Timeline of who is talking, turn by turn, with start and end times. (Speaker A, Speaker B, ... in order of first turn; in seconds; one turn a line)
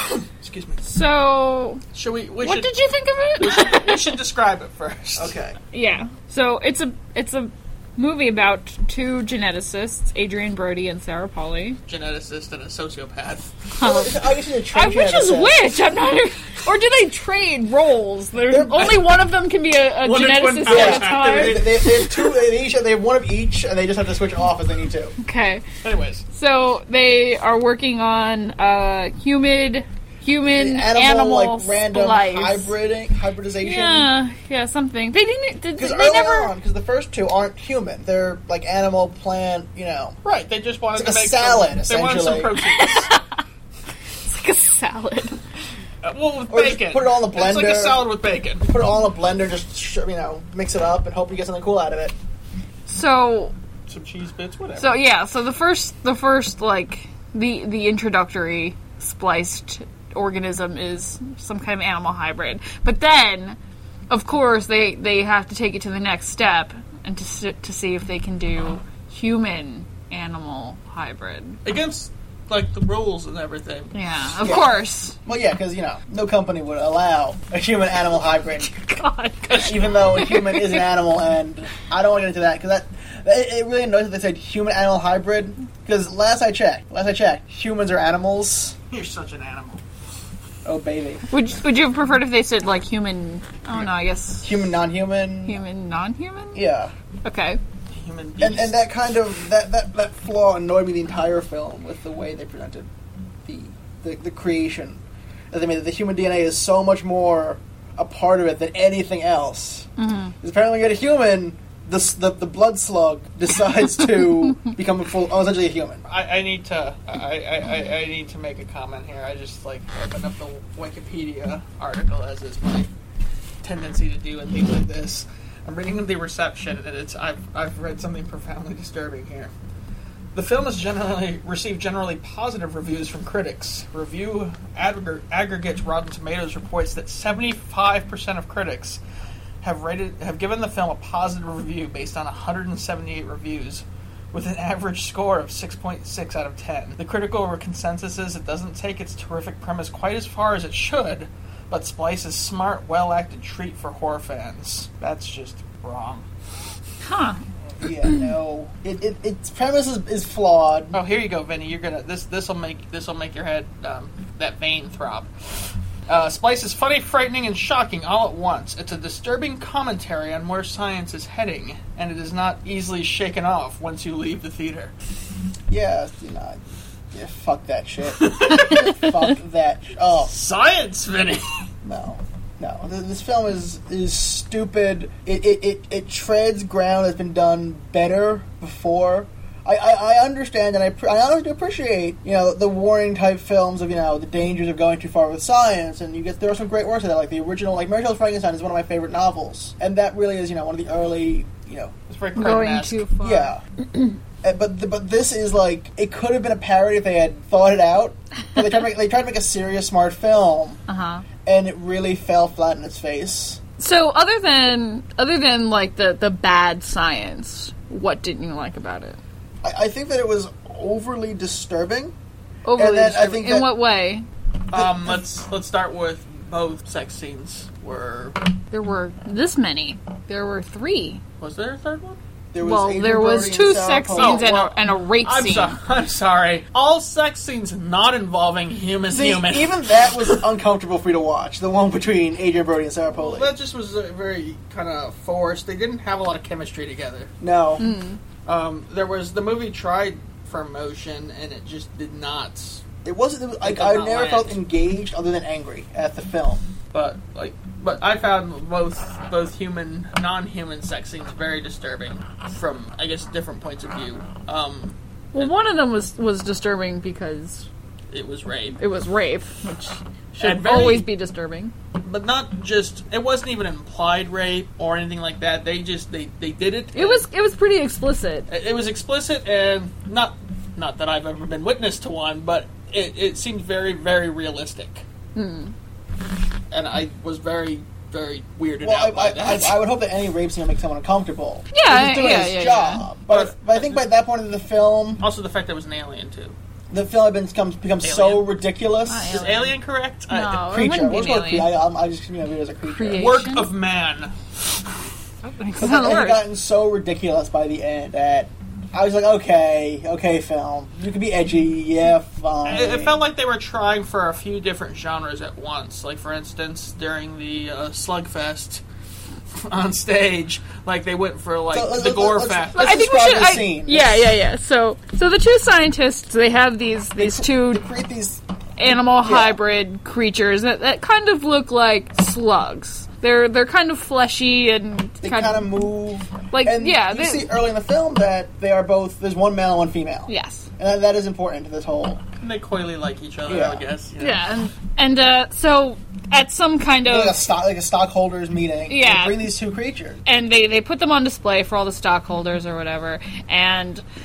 Speaker A: 0.4-0.8
Speaker B: 0.8-1.8
Speaker A: 1.9-2.7
Speaker B: 2.4-4.2
Speaker A: 3.4-5.3
Speaker C: 5.2-5.6
Speaker B: 5.7-11.8
Speaker A: 11.9-13.6
Speaker B: 13.8-22.3
Speaker C: 13.8-15.6
Speaker C: 18.5-19.0
Speaker A: 18.8-19.2
Speaker A: 20.0-22.1
Speaker C: 20.7-25.1
Speaker B: 25.2-25.7
Speaker A: 25.8-26.2
Speaker B: 26.3-32.7
Speaker C: 30.4-34.1
Speaker B: 33.6-36.5
Speaker C: 35.8-40.2
Speaker A: 40.2-43.1
Speaker C: 40.9-42.5
Speaker B: 42.6-43.4
Speaker B: 44.3-45.4
Speaker A: 46.0-48.7
Speaker C: 46.5-48.1
Speaker C: 48.6-52.1
Speaker B: 52.9-53.5
Speaker A: 53.9-54.9
Speaker B: 54.8-63.6
Speaker B: 64.1-71.6
Speaker A: 71.7-73.9
Speaker B: 73.9-75.2
Speaker C: 74.4-74.7
Speaker C: 75.3-78.7
Speaker B: 78.6-80.9
Speaker A: 79.5-79.8
Speaker C: 79.5-88.8
Speaker A: 88.9-89.8
Speaker C: 90.7-91.3
Speaker B: 91.3-94.7
Speaker C: 94.4-95.6
Speaker B: 95.5-96.6
Speaker C: 96.5-96.9
Speaker B: 97.2-97.6
Speaker A: 97.9-98.8
Speaker C: 98.4-102.9
Speaker C: 103.5-109.9
Speaker B: 110.0-110.3
Speaker C: 110.4-116.0
Speaker A: 116.1-122.9
Speaker A: 123.6-129.5
Speaker A: 130.3-139.0
Speaker A: 139.6-156.3
Speaker B: 157.0-157.4
Speaker C: 157.8-161.0
Speaker A: 160.9-174.9
Speaker C: 175.7-176.6
Speaker C: 177.1-180.3
Speaker A: 178.2-178.9
Speaker A: 180.3-181.6
Speaker C: 181.8-201.9
Speaker A: 202.1-203.0
Speaker B: 202.4-203.5
Speaker C: 203.2-203.6
Speaker C: 204.4-210.8
Speaker B: 210.9-211.2
Speaker C: 211.4-213.6
Speaker B: 213.8-219.2
Speaker C: 219.6-222.1
Speaker B: 222.7-224.3
Speaker C: 222.8-223.7
Speaker A: 224.7-228.5
Speaker C: 224.7-225.2
Speaker B: 228.7-231.2
Speaker A: 231.4-232.2
Speaker C: 232.5-234.7
Speaker B: 232.6-235.8
Speaker A: 234.2-240.4
Speaker C: 239.1-243.5
Speaker A: 243.1-247.3
Speaker C: 247.4-247.9
Speaker B: 247.8-248.2
Speaker A: 248.5-252.8
Speaker C: 253.0-256.6
Speaker A: 253.6-254.6
Speaker A: 256.9-265.5
Speaker B: 265.3-267.7
Speaker A: 268.1-268.8
Speaker B: 268.8-271.7
Speaker A: 270.3-271.1
Speaker A: 272.0-277.2
Speaker B: 276.9-278.5
Speaker A: 278.5-285.0
Speaker B: 285.4-285.7
Speaker A: 286.7-289.8
Speaker C: 288.8-295.2
Speaker B: 291.7-293.2
Speaker A: 293.3-294.1
Speaker A: 295.2-296.6
Speaker C: 296.9-299.4
Speaker A: 298.0-298.6
Speaker B: 299.1-301.8
Speaker A: 299.3-300.7
Speaker C: 300.7-303.4
Speaker B: 302.9-303.7
Speaker A: 303.2-304.4
Speaker B: 305.4-306.5
Speaker C: 305.8-313.2
Speaker A: 312.7-318.8
Speaker A: 319.6-322.9
Speaker C: 321.7-324.3
Speaker B: 322.8-327.9
Speaker C: 327.1-329.6
Speaker B: 328.8-335.9
Speaker C: 335.2-342.2
Speaker B: 336.5-337.5
Speaker B: 340.3-340.7
Speaker A: 342.4-344.4
Speaker C: 343.5-343.9
Speaker B: 344.2-347.4
Speaker C: 347.0-350.2
Speaker B: 348.9-349.5
Speaker B: 350.3-354.0